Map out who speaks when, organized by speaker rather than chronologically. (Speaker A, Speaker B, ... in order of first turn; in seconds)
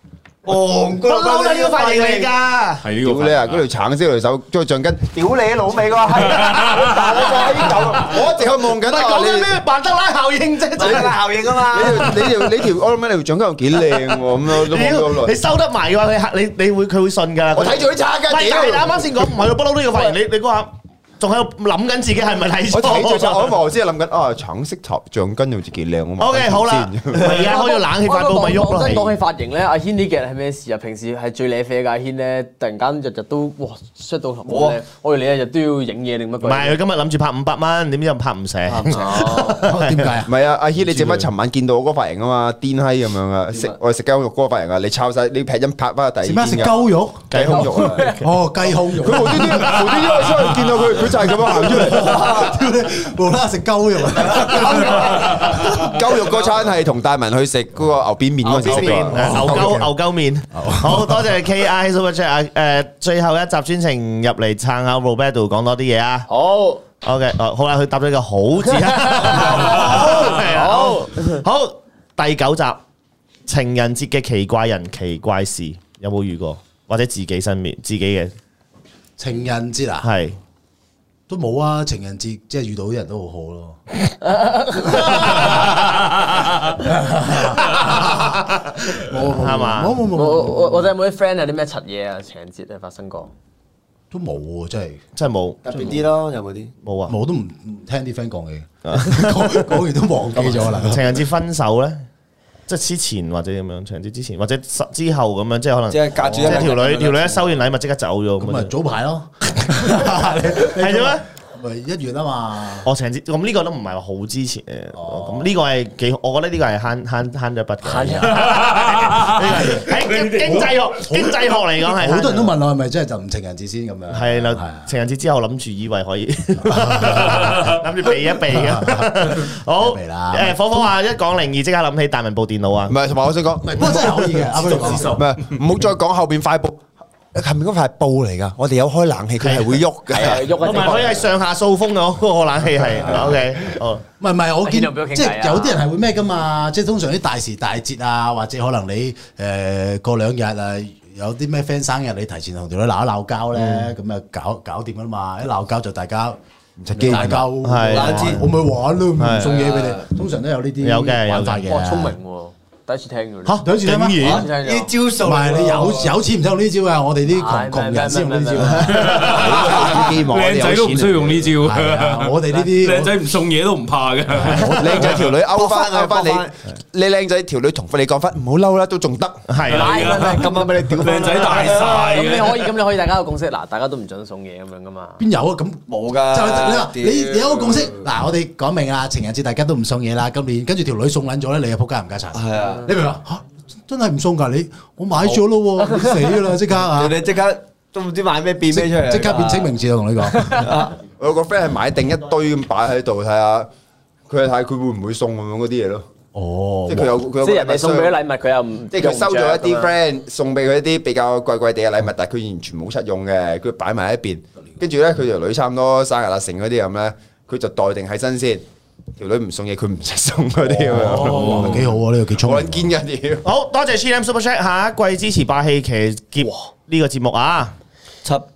Speaker A: 0.5-2.3, 5.1-8.1, 10.8-12.1, 17.7-18.9, 34.5-34.8, 38.7-39.0, 95.6-96.7, 105.9-107.5, 157.0-157.3, 157.9-158.4, 159.4-160.0, 164.2-166.2, 175.2-176.5, 179.9-182.0, 185.9-188.0, 192.3-192.8, 196.8-199.7, 200.5-200.9
Speaker B: 1.0-2.8, 6.5-6.8, 8.8-11.2, 11.9-12.3, 14.5-23.6, 26.2-29.1, 36.4-40.1, 47.3-48.2, 58.4-66.3, 67.0-72.8, 73.5-78.3, 80.0-80.4, 87.6-90.0, 95.2-96.0, 96.8-97.2, 98.9-99.7, 100.7-102.0, 102.7-108.7, 110.6-111.2, 112.8-122.5, 124.1-133.0, 139.4-139.8, 140.5-144.0, 153.6-153.9, 157.6-158.4, 159.2-159.5, 160.8-161.6, 163.4-164.5, 179.5-180.0, 223.4-227.7
Speaker C: 2.8-3.6, 6.4-6.9, 118.5-119.3, 168.9-175.2, 179.7-182.7, 221.2-221.9
Speaker D: 3.0-5.1, 6.7-9.5, 10.8-11.1, 11.7-15.3, 17.6-18.5, 22.7-27.5, 40.2-48.2, 48.9-52.6, 54.2-59.9, 132.9-136.8, 137.3-141.0, 156.8-157.5, 169.2-171.5, 174.7-179.4, 201.1-203.7, 204.3-206.1, 206.9-208.2, 208.9-218.7, 219.2-223.5
Speaker E: 27.3-36.8, 38.9-39.7, 66.3-66.8, 68.7-71.4, 84.4-85.5, 90.1-93.3, 140.1-141.4, 144.6-145.8, 161.6-163.6, 164.2-164.9, 167.3-169.2, 179.7-180.7, 181.7-185.2, 207.4-209.9
Speaker F: 39.7-41.3, 46.2-50.0, 51.4-55.6, 58.9-59.9, 60.5-61.4, 79.2-80.1, 81.3-83.8, 85.3-85.5, 86.8-88.4, 89.0-90.9, 94.1-95.0, 97.1-101.0, 106.2-106.7, 108.4-112.9, 114.9-115.5, 117.9-118.3, 119.5-124.9, 126.6-130.9, 133.6-135.3, 143.1-143.4, 144.2-156.4, 156.9-162.2, 163.6-164.3, 165.2-169.3, 171.6-173.2, 174.3-175.2, 185.2-197.2, 198.7-200.7, 206.3-207.2, 220.9-223.0